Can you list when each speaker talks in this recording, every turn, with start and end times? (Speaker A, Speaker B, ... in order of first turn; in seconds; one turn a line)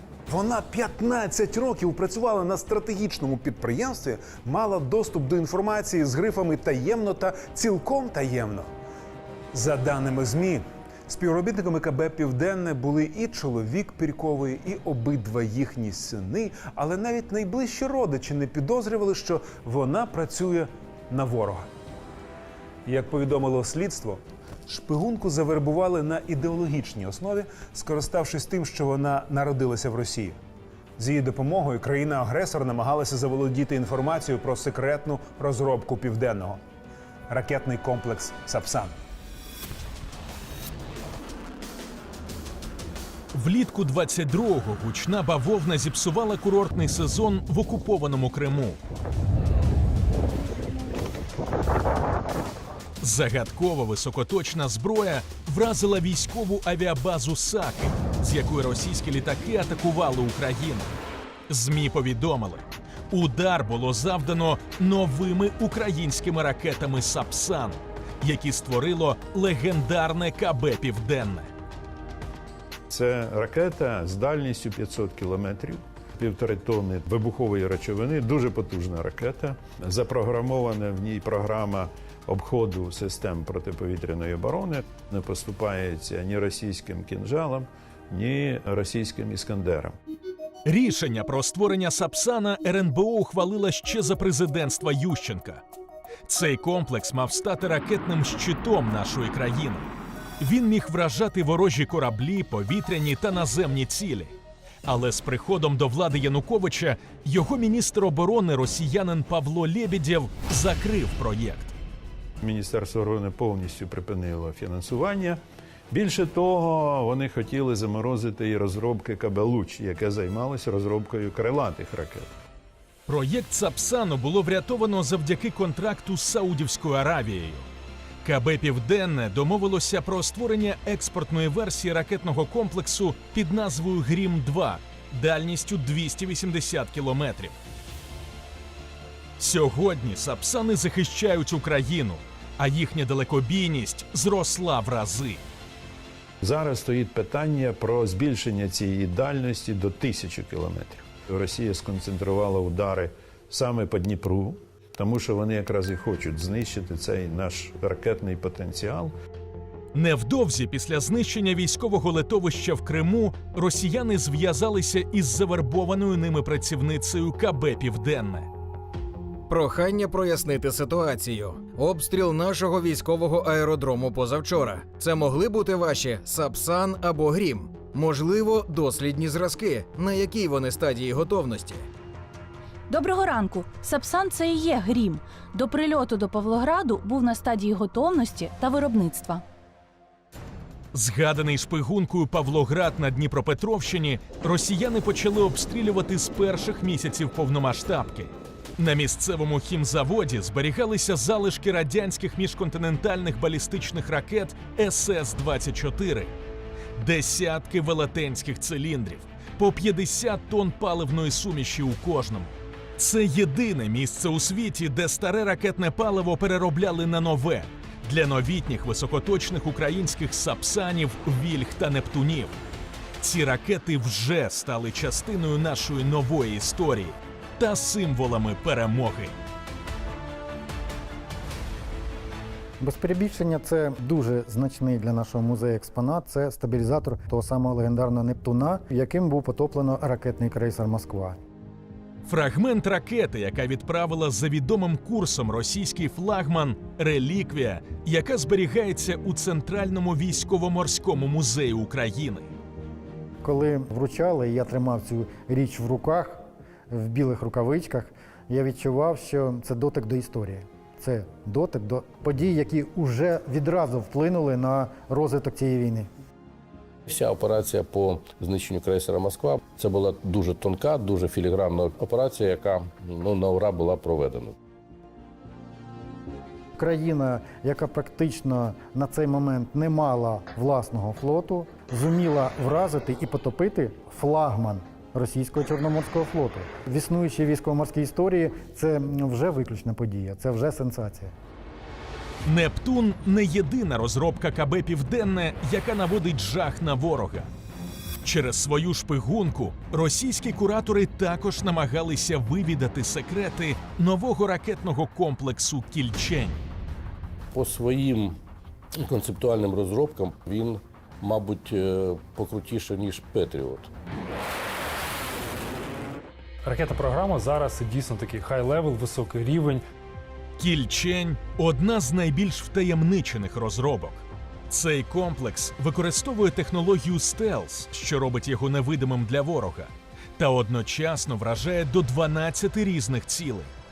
Speaker A: 0.3-8.7
Speaker A: 9.5-21.7
Speaker A: 22.9-30.4
Speaker A: 31.0-36.6
Speaker A: 37.3-38.9
Speaker B: 43.3-48.8
Speaker B: 53.0-60.9
Speaker B: 61.5-71.5
Speaker C: 72.9-89.9
Speaker B: 90.6-95.6
Speaker B: 96.3-99.9
Speaker B: 100.4-104.3
Speaker B: 104.8-111.7
Speaker C: 112.4-115.4
Speaker C: 115.9-122.3
Speaker B: 123.1-127.7
Speaker B: 128.2-137.6
Speaker B: 139.4-145.4
Speaker C: 146.4-159.1
Speaker B: 159.9-168.5
Speaker D: 169.5-181.9
Speaker E: 182.9-189.4
Speaker B: 190.9-206.3
Speaker B: 206.9-222.6
Speaker B: 223.2-229.3
Speaker F: 232.8-241.4
Speaker B: 242.2-252.5
Speaker F: 253.4-266.1
Speaker G: 267.1-274.6
Speaker F: 276.8-291.3
Speaker B: 292.4-297.5
Speaker B: 298.2-306.6
Speaker G: 307.5-308.4
Speaker G: 309.0-313.9
Speaker H: 316.6-319.8
Speaker B: 320.6-333.7